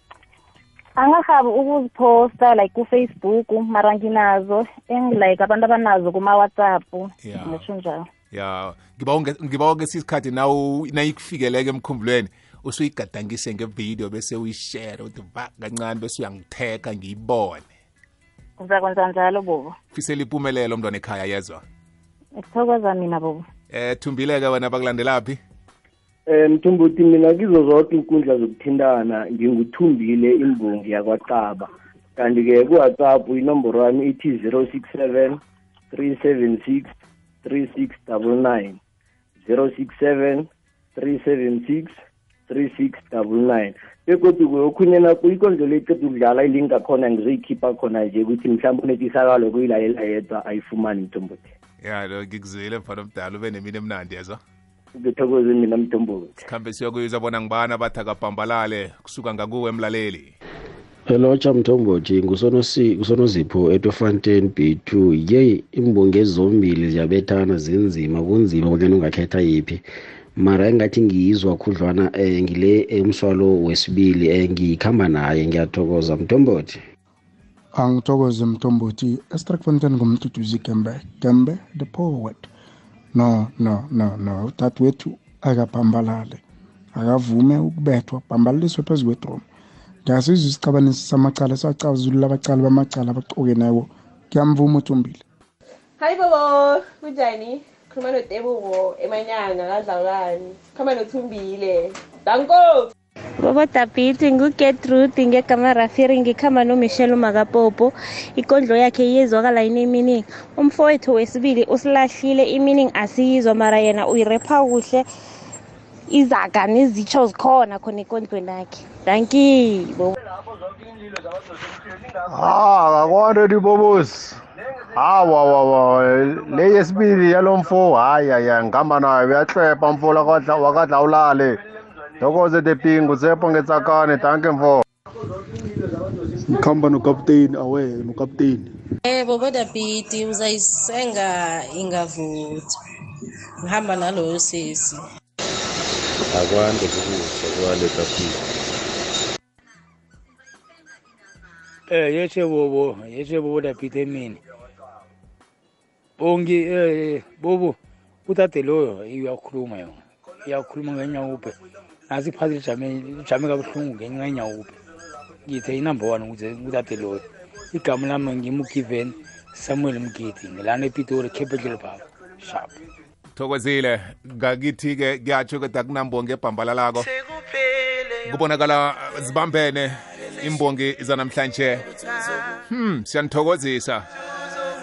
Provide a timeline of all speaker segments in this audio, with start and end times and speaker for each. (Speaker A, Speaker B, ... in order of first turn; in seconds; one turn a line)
Speaker A: 1.0-8.0
Speaker B: 7.2-7.6
Speaker B: 8.3-17.6
Speaker A: 18.6-19.7
Speaker B: 19.9-21.6
Speaker A: 22.4-23.4
Speaker B: 23.7-25.4
Speaker C: 26.3-35.4
Speaker C: 35.9-36.8
Speaker C: 37.4-38.8
Speaker C: 39.4-40.5
Speaker C: 41.0-41.9
Speaker C: 42.5-51.4
Speaker B: 51.8-54.4
Speaker C: 55.1-56.3
Speaker B: 56.4-60.3
Speaker D: 61.1-69.8
Speaker D: 70.4-76.8
Speaker E: 77.7-82.5
Speaker E: 83.1-86.4
Speaker E: 86.9-89.4
Speaker E: 90.0-95.2
Speaker F: 96.0-102.9
Speaker G: 103.4-115.0
Speaker G: 116.1-120.1
Speaker C: 121.1-122.0
Speaker H: 122.3-124.3
Speaker I: 122.4-124.1
Speaker H: 125.0-131.5
Speaker I: 127.5-127.9
Speaker I: 130.1-130.5
Speaker H: 132.4-134.7
Speaker I: 132.6-133.0
Speaker I: 133.6-134.5
Speaker E: 136.6-138.1
Speaker J: 139.1-142.4
Speaker J: 143.7-144.5
Speaker I: 146.3-148.3
Speaker K: 151.9-154.4
Speaker K: 156.2-161.6
Speaker K: 162.1-164.7
Speaker K: 165.4-172.7
Speaker B: 173.3-177.1
Speaker B: 178.2-181.9
Speaker B: 182.7-184.1